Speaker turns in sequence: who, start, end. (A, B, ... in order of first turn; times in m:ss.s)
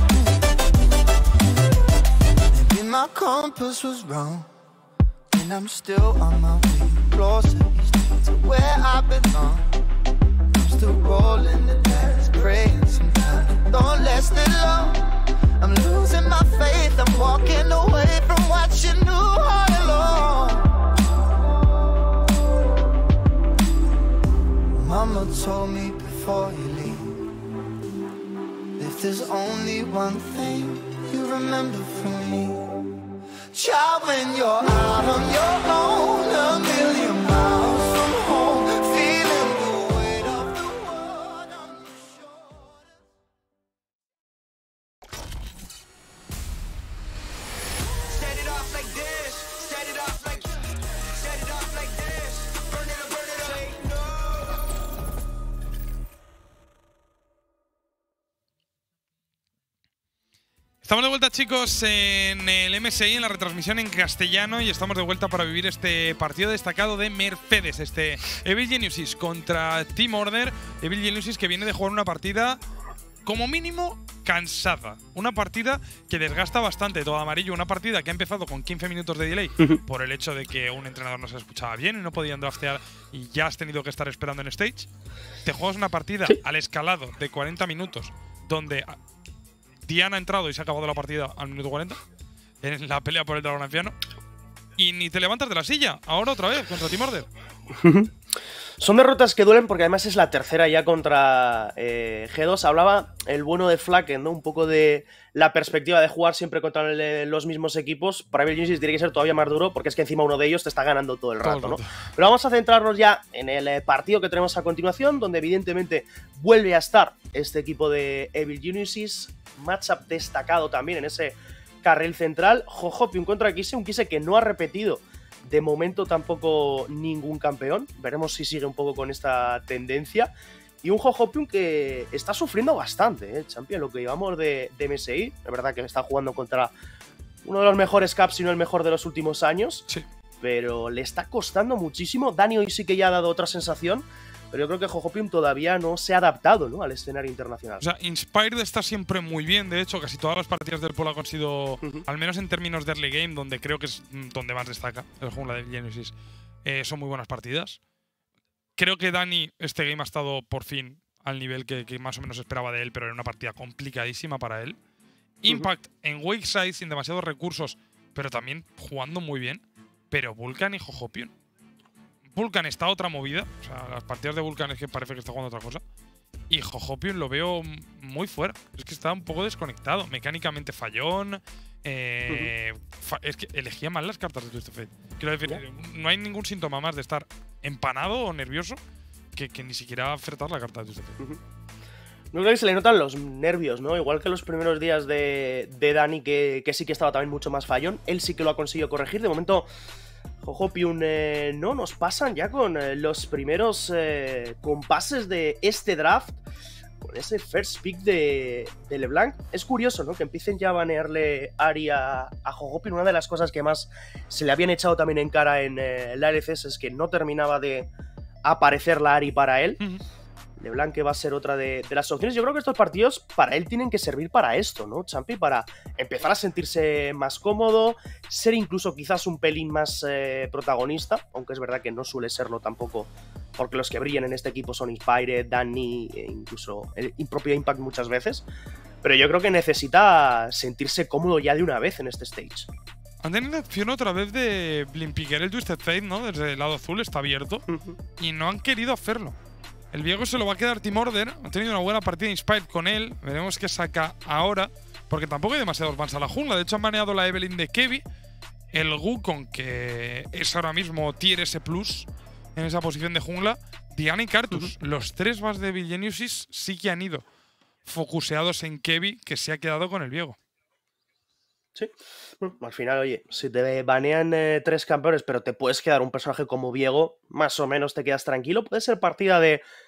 0:02.5-0:04.5 A
0:05.3-0:09.8 A
0:10.5-0:20.7 A
0:24.7-0:27.3 A
0:28.8-0:32.8 A
0:33.5-0:42.8 A
0:49.2-0:50.1 A
1:00.8-1:12.6 B
1:13.3-1:24.9 B
1:25.4-1:29.0 B
1:29.9-1:32.0 B
1:32.6-1:34.0 B
1:34.8-1:37.3 B
1:37.8-1:38.1 C
1:38.8-2:10.3 C
1:51.4-1:51.9 B
2:10.8-2:16.7 C
2:17.4-2:19.8 C
2:20.4-2:27.8 C
2:27.8-2:36.1 B
2:36.6-2:37.8 B
2:38.8-2:44.8 B
2:45.4-2:51.3 B
2:52.3-2:55.8 B
2:56.5-3:08.8 B
3:09.4-3:11.2 B
3:12.3-3:19.7 C
3:20.4-3:26.4 C
3:27.0-3:37.9 C
3:38.4-3:39.8 C
3:40.6-3:58.4 C
3:59.0-4:02.7 C
4:03.2-4:07.6 B
4:07.7-4:08.0 C
4:08.2-4:09.4 B
4:09.9-4:18.0 B
4:18.7-4:27.2 B
4:27.9-4:30.4 B
4:31.8-4:39.6 C